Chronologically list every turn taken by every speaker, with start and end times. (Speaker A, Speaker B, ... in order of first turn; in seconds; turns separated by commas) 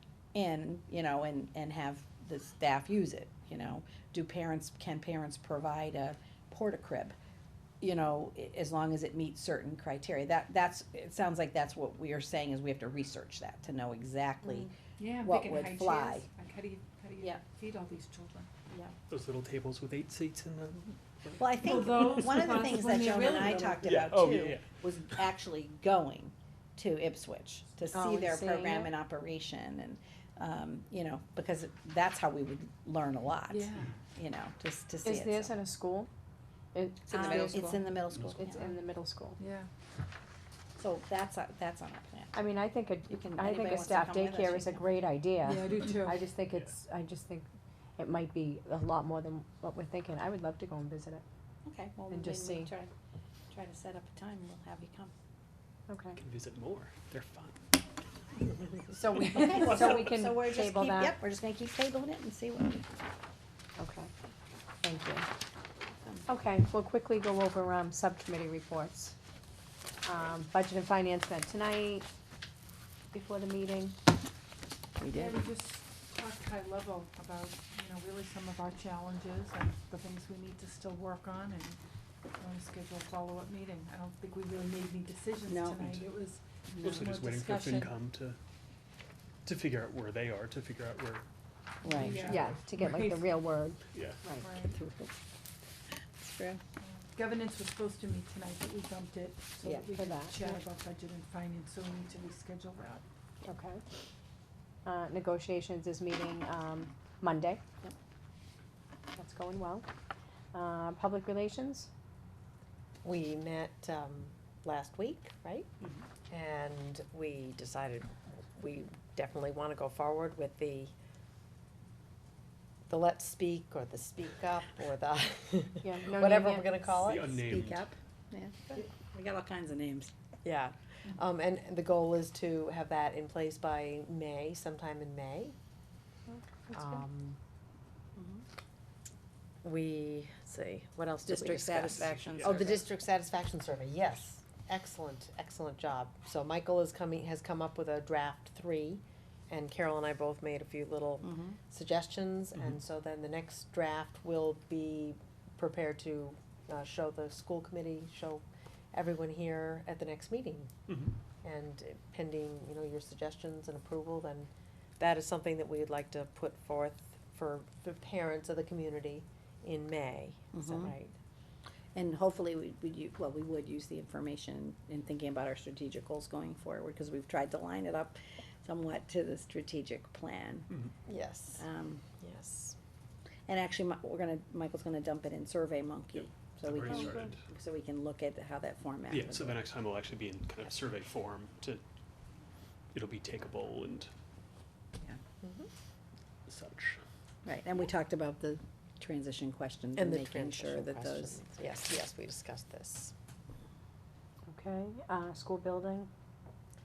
Speaker A: 0.3-7.1, Speaker A: 7.8-16.3, Speaker B: 15.0-18.5, Speaker C: 19.1-21.0, Speaker A: 21.4-35.5, Speaker B: 21.6-23.8, Speaker C: 22.0-22.5, Speaker C: 23.8-24.7, Speaker D: 27.9-28.9, Speaker B: 33.5-33.9, Speaker D: 35.0-36.1, Speaker D: 36.7-37.8, Speaker A: 37.1-38.7, Speaker B: 37.1-37.8, Speaker D: 38.3-39.4, Speaker B: 39.4-39.7, Speaker A: 40.8-42.3, Speaker D: 42.3-47.5, Speaker A: 43.1-44.8, Speaker B: 45.4-46.2, Speaker D: 48.0-51.2, Speaker A: 51.6-52.9, Speaker D: 52.1-52.7, Speaker A: 53.5-55.1, Speaker D: 55.9-56.2, Speaker C: 56.2-57.7, Speaker D: 58.9-61.2, Speaker A: 59.3-62.9, Speaker D: 63.8-64.1, Speaker D: 64.8-65.3, Speaker D: 66.3-69.1, Speaker D: 70.0-72.1, Speaker D: 73.1-74.0, Speaker A: 75.0-75.4, Speaker B: 75.1-81.8, Speaker B: 82.4-87.9, Speaker A: 85.5-85.9, Speaker C: 86.8-88.4, Speaker C: 89.4-91.2, Speaker A: 91.8-92.3, Speaker B: 91.8-93.3, Speaker C: 92.0-92.6, Speaker D: 92.2-94.5, Speaker C: 93.9-94.2, Speaker B: 94.4-94.8, Speaker A: 94.7-95.1, Speaker A: 96.2-96.6, Speaker B: 96.8-103.0, Speaker D: 99.9-100.5, Speaker D: 103.4-103.8, Speaker D: 104.8-107.6, Speaker D: 109.2-109.9, Speaker D: 110.5-111.9, Speaker E: 113.0-115.7, Speaker E: 116.3-120.9, Speaker E: 122.9-127.4, Speaker D: 125.8-126.9, Speaker C: 127.0-127.9, Speaker A: 127.4-130.1, Speaker E: 130.4-135.6, Speaker D: 136.7-137.0, Speaker E: 136.7-137.4, Speaker A: 138.2-138.4, Speaker E: 139.6-160.7, Speaker A: 141.3-142.8, Speaker C: 142.4-142.7, Speaker A: 151.2-151.6, Speaker C: 160.9-161.2, Speaker E: 161.4-171.2, Speaker A: 170.5-171.0, Speaker A: 171.9-180.7, Speaker E: 181.1-181.6, Speaker A: 181.6-182.0, Speaker E: 182.2-182.8, Speaker A: 183.5-189.6, Speaker C: 186.7-187.4, Speaker C: 189.1-191.8, Speaker C: 192.9-194.1, Speaker E: 195.4-195.7, Speaker C: 196.5-197.0, Speaker A: 197.4-201.4, Speaker E: 200.0-203.1, Speaker D: 204.5-206.1